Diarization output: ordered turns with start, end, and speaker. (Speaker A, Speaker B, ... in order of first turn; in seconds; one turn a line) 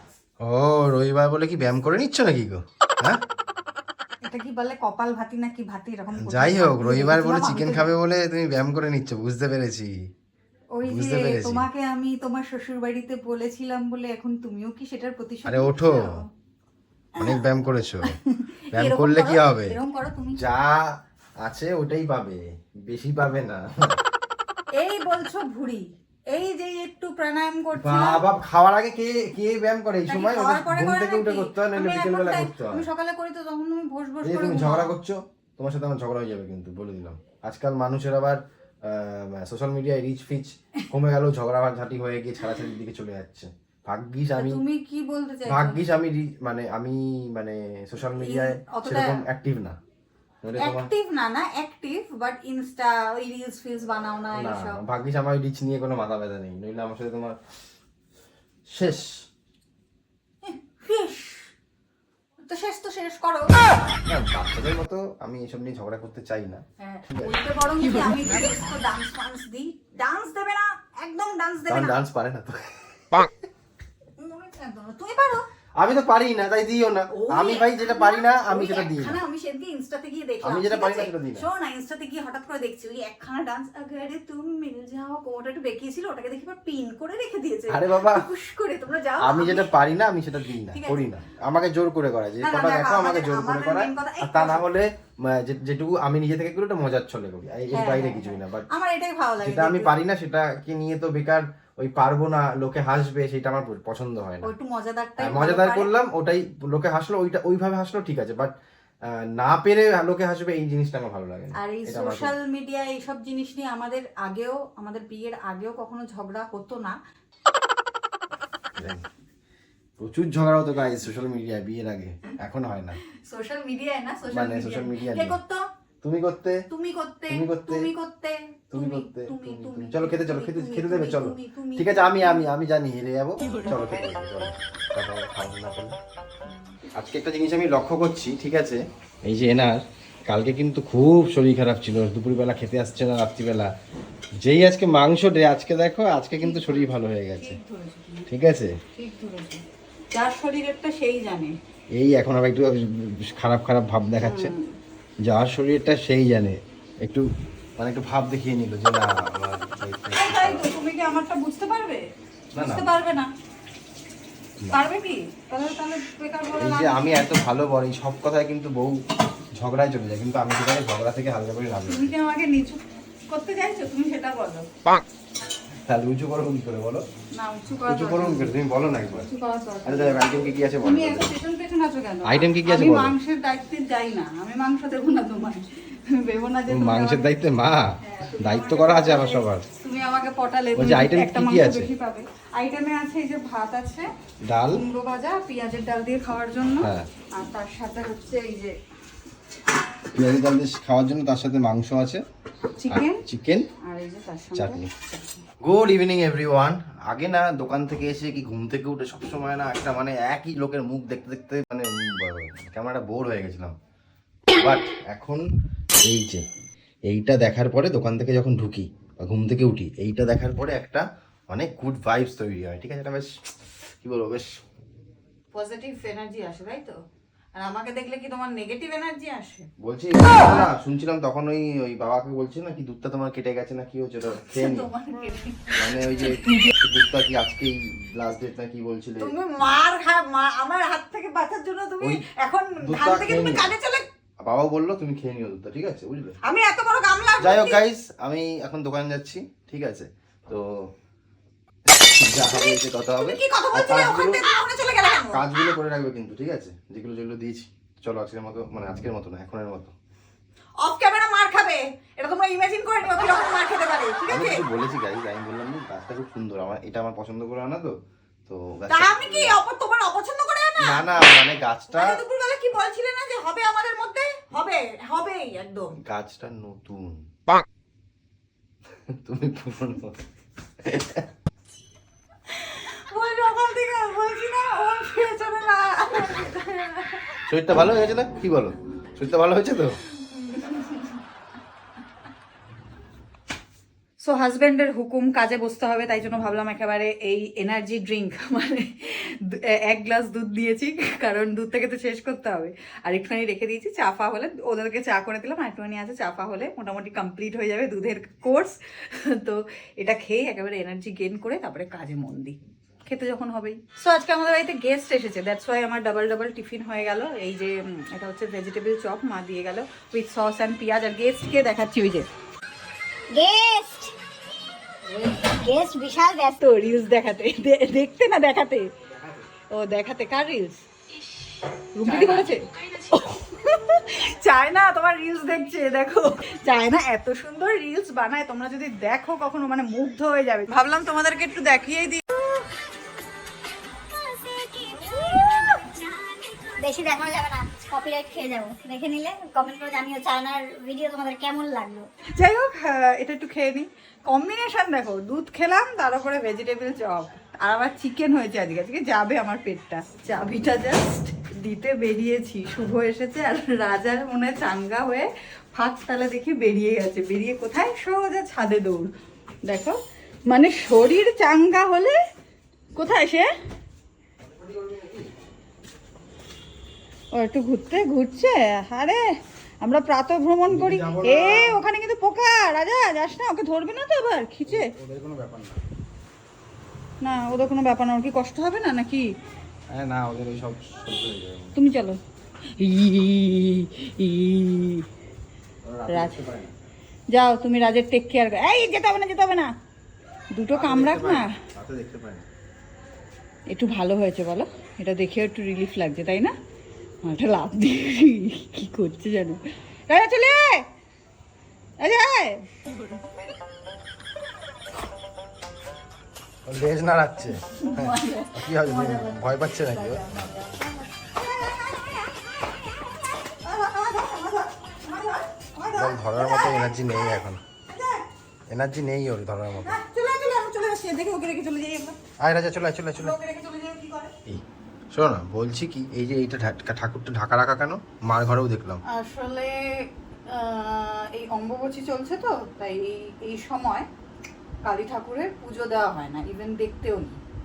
Speaker A: 0.4-3.2
Speaker B: 4.2-7.9
Speaker A: 6.2-10.1
Speaker B: 10.8-16.3
Speaker A: 10.8-11.7
Speaker A: 15.4-16.2
Speaker A: 17.2-18.2
Speaker B: 18.0-20.4
Speaker A: 18.7-19.8
Speaker A: 20.4-24.0
Speaker B: 24.8-28.2
Speaker A: 27.8-32.9
Speaker B: 30.1-34.9
Speaker A: 34.2-44.6
Speaker B: 44.4-45.8
Speaker A: 45.5-49.8
Speaker B: 48.2-49.2
Speaker A: 50.4-50.9
Speaker B: 50.6-54.8
Speaker A: 54.3-57.4
Speaker A: 58.7-59.2
Speaker B: 60.4-61.5
Speaker B: 62.5-63.6
Speaker A: 64.1-67.4
Speaker B: 66.8-72.0
Speaker A: 71.7-73.3
Speaker B: 74.2-75.4
Speaker A: 75.8-79.2
Speaker B: 77.1-89.7
Speaker A: 80.4-81.5
Speaker A: 87.7-88.3
Speaker A: 89.2-98.7
Speaker B: 90.7-91.0
Speaker B: 92.4-94.6
Speaker B: 97.7-99.9
Speaker A: 99.4-104.5
Speaker B: 104.4-105.9
Speaker A: 105.2-112.3
Speaker B: 111.6-117.0
Speaker A: 118.8-119.0
Speaker A: 120.0-123.0
Speaker B: 123.3-125.6
Speaker A: 124.3-125.4
Speaker A: 126.0-126.6
Speaker B: 126.7-132.5
Speaker A: 127.3-127.9
Speaker A: 128.7-135.9
Speaker A: 136.9-143.7
Speaker A: 144.4-147.6
Speaker B: 146.4-148.3
Speaker A: 148.3-148.8
Speaker B: 148.9-151.6
Speaker A: 152.0-154.5
Speaker B: 154.2-154.8
Speaker A: 155.3-160.7
Speaker B: 160.1-162.0
Speaker A: 162.6-162.9
Speaker B: 162.6-163.3
Speaker B: 164.7-167.0
Speaker A: 166.6-169.0
Speaker A: 169.6-172.1
Speaker B: 171.9-174.7
Speaker A: 175.9-177.0
Speaker B: 177.4-178.6
Speaker A: 177.9-179.3
Speaker B: 179.1-187.3
Speaker A: 179.8-181.3
Speaker A: 182.2-183.2
Speaker A: 186.7-189.7
Speaker B: 188.0-194.1
Speaker A: 190.8-191.9
Speaker A: 194.5-194.8
Speaker B: 194.7-198.8
Speaker A: 196.8-197.1
Speaker A: 200.1-202.2
Speaker B: 202.8-203.2
Speaker A: 202.9-203.7
Speaker B: 203.8-205.5
Speaker A: 204.6-204.9
Speaker A: 205.6-213.8
Speaker A: 214.5-215.4
Speaker A: 216.1-216.4
Speaker A: 217.1-224.6
Speaker B: 225.5-227.0
Speaker B: 227.6-229.7
Speaker A: 229.8-234.9
Speaker B: 234.3-236.7
Speaker A: 235.7-239.3
Speaker B: 239.2-244.1
Speaker A: 242.8-243.7
Speaker A: 244.4-246.4
Speaker B: 246.4-247.8
Speaker A: 247.4-250.7
Speaker A: 251.9-254.5
Speaker B: 252.5-255.4
Speaker A: 255.3-259.9
Speaker B: 260.8-264.6
Speaker A: 264.3-267.9
Speaker A: 268.5-269.6
Speaker B: 268.9-271.2
Speaker A: 270.8-272.2
Speaker B: 271.9-276.0
Speaker A: 276.0-277.3
Speaker A: 279.1-280.2
Speaker A: 280.8-281.3
Speaker B: 282.5-287.4
Speaker A: 287.5-290.0
Speaker B: 290.2-291.2
Speaker B: 294.2-322.3
Speaker C: 323.3-324.1
Speaker B: 325.1-325.6
Speaker C: 325.4-326.6
Speaker B: 326.5-328.9
Speaker B: 329.7-330.9
Speaker B: 331.9-342.4
Speaker C: 344.1-352.1
Speaker B: 352.4-369.1
Speaker B: 369.7-372.2
Speaker B: 373.0-373.5
Speaker A: 374.4-375.3
Speaker B: 377.4-384.9
Speaker A: 380.7-381.8
Speaker A: 384.7-385.8
Speaker B: 387.2-389.3
Speaker A: 389.9-391.8
Speaker B: 391.8-392.2
Speaker B: 392.8-395.1
Speaker A: 395.8-396.7
Speaker B: 396.1-396.4
Speaker B: 397.3-399.7
Speaker B: 400.5-401.6
Speaker A: 400.7-402.5
Speaker B: 403.7-406.6
Speaker B: 407.2-410.9
Speaker B: 412.0-412.7
Speaker A: 416.6-420.4
Speaker B: 417.6-421.8
Speaker B: 423.6-428.3
Speaker A: 425.9-427.6
Speaker A: 428.7-430.0
Speaker B: 429.8-432.2
Speaker A: 432.4-433.4
Speaker B: 433.2-434.3
Speaker A: 434.5-439.0
Speaker B: 439.1-444.1
Speaker B: 444.8-447.4